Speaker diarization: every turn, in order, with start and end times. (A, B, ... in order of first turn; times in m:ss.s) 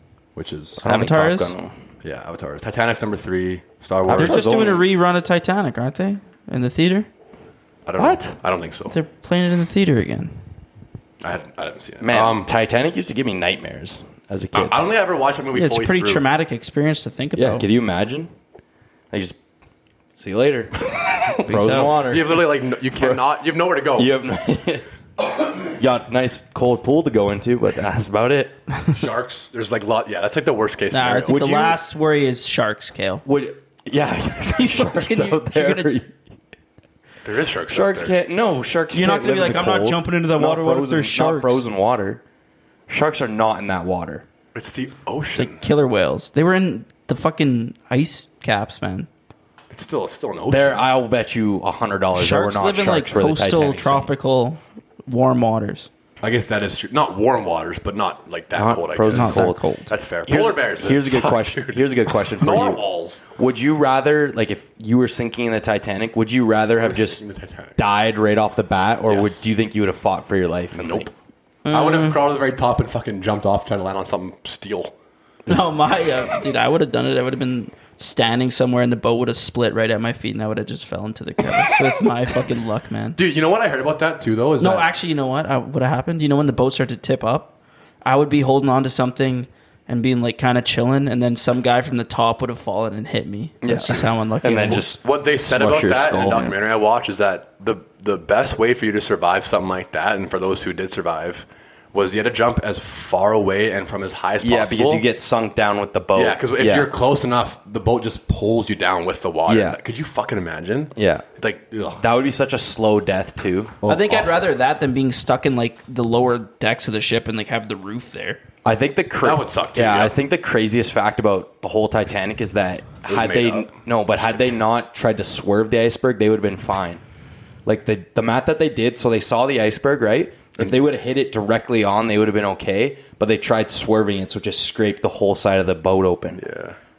0:00.4-0:00.8 A
0:00.8-0:01.8 B
0:00.8-0:01.5 C
0:02.0-0:04.4 A
0:04.0-0:04.8 B
0:04.1-0:07.1 C
0:07.8-0:08.9 A
0:08.0-0:08.4 B
0:08.9-0:10.3 C
0:11.2-0:12.5 A
0:12.0-0:14.8 B
0:14.5-0:16.2 A
0:15.5-0:17.7 C
0:17.4-0:18.3 B
0:19.1-0:19.4 B
0:20.2-0:23.2 B
0:21.4-0:21.9 C
0:21.5-0:24.1 A
0:23.9-0:24.8 B
0:25.5-0:28.6 B
0:28.9-0:31.4 A
0:30.9-0:33.2 C
0:31.2-0:31.8 B
0:33.2-0:36.1 B
0:34.6-0:35.9 C
0:37.2-0:38.2 A
0:37.7-0:42.2 B
0:38.9-0:41.6 C
0:42.9-0:44.2 B
0:44.5-0:45.6 A
0:45.3-0:49.1 C
0:49.7-0:50.8 A
0:50.5-0:54.1 B
0:52.1-0:55.9 C
0:56.2-1:03.2 A
0:58.5-0:59.6 B
0:59.1-0:59.9 C
1:00.2-1:02.8 B
1:03.4-1:07.2 B
1:06.8-1:07.8 A
1:07.8-1:11.1 B
1:09.1-1:09.5 A
1:10.7-1:11.1 A
1:11.6-1:12.2 C
1:11.7-1:14.9 A
1:15.5-1:23.2 C
1:23.2-1:24.9 A
1:24.6-1:34.9 C
1:33.6-1:36.5 B
1:34.8-1:45.0 A
1:44.4-1:46.9 B
1:46.1-1:52.0 A
1:49.5-1:49.8 B
1:51.0-1:51.2 B
1:52.0-1:54.2 B
1:53.8-1:54.3 A
1:53.8-1:58.4 C
1:58.6-2:07.0 B
1:59.2-2:00.2 A
2:03.0-2:04.5 A
2:07.6-2:16.4 B
2:16.4-2:16.8 A